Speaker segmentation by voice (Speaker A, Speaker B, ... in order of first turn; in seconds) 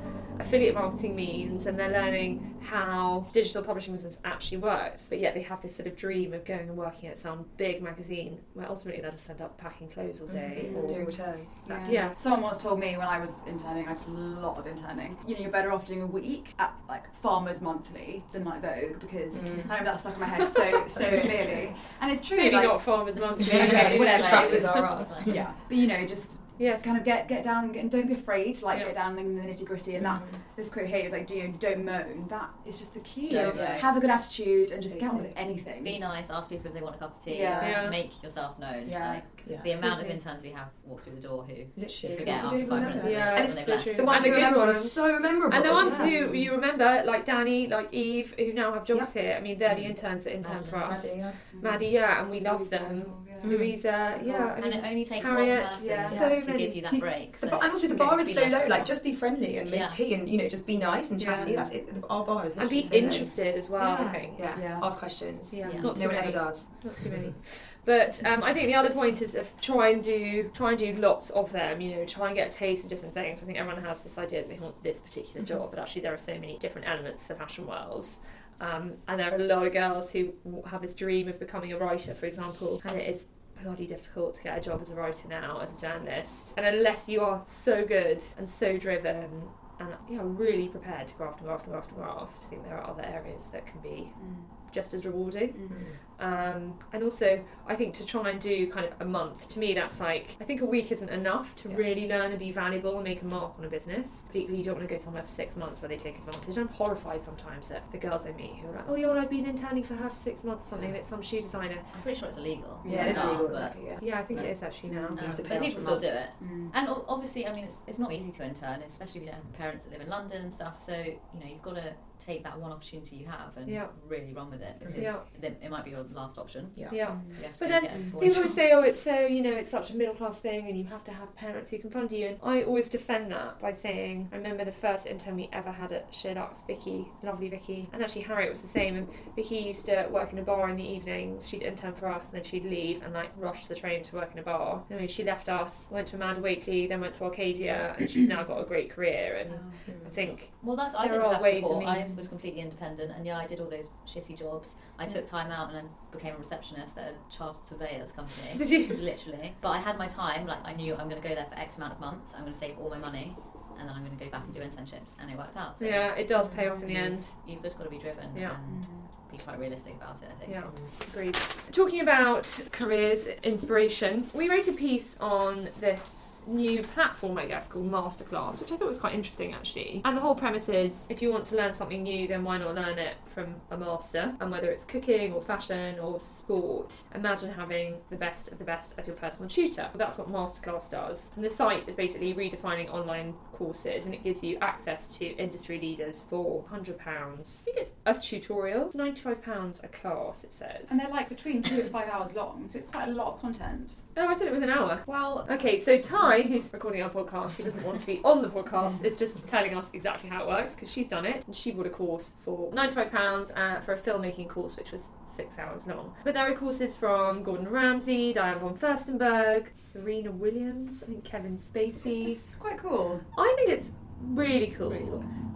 Speaker A: 0.4-11.1, 11.8-12.1, 20.4-21.2, 22.3-24.9, 26.6-26.9, 37.6-38.0, 42.9-56.8, 61.2-61.6, 62.6-64.5, 65.5-111.9, 112.9-113.5, 114.0-115.9, 123.7-123.9, 125.0-125.2, 126.9-152.1, 158.5-159.0, 165.8-167.3, 170.4-201.0, 204.1-222.4, 223.3-225.2
Speaker B: 10.3-12.0, 19.3-19.8, 20.9-21.7, 23.4-25.4, 30.0-30.4, 33.4-33.8, 34.9-35.3, 39.4-39.8, 41.8-46.1, 49.6-49.9, 50.8-51.4, 53.4-53.8, 57.4-67.3, 95.7-96.0, 112.8-114.5, 115.2-116.1, 124.8-125.1, 149.8-150.3
Speaker C: 10.6-36.0, 37.3-37.9, 38.8-39.3, 39.8-40.1, 42.2-42.9, 44.0-44.5, 45.8-46.5, 51.5-54.6, 55.8-57.0, 57.8-58.3, 61.3-61.7, 64.5-64.9, 94.2-94.5, 112.8-113.5, 114.9-115.2, 116.4-116.7, 127.0-127.4, 127.9-128.2, 149.5-149.8, 168.7-169.1, 200.9-204.0, 205.1-205.5, 222.2-223.2
Speaker D: 23.6-25.4, 33.3-34.0, 35.8-44.1, 50.4-51.0, 54.6-58.9, 59.6-60.0, 65.6-66.0, 111.9-113.8, 115.2-128.6, 150.5-166.1, 166.9-170.7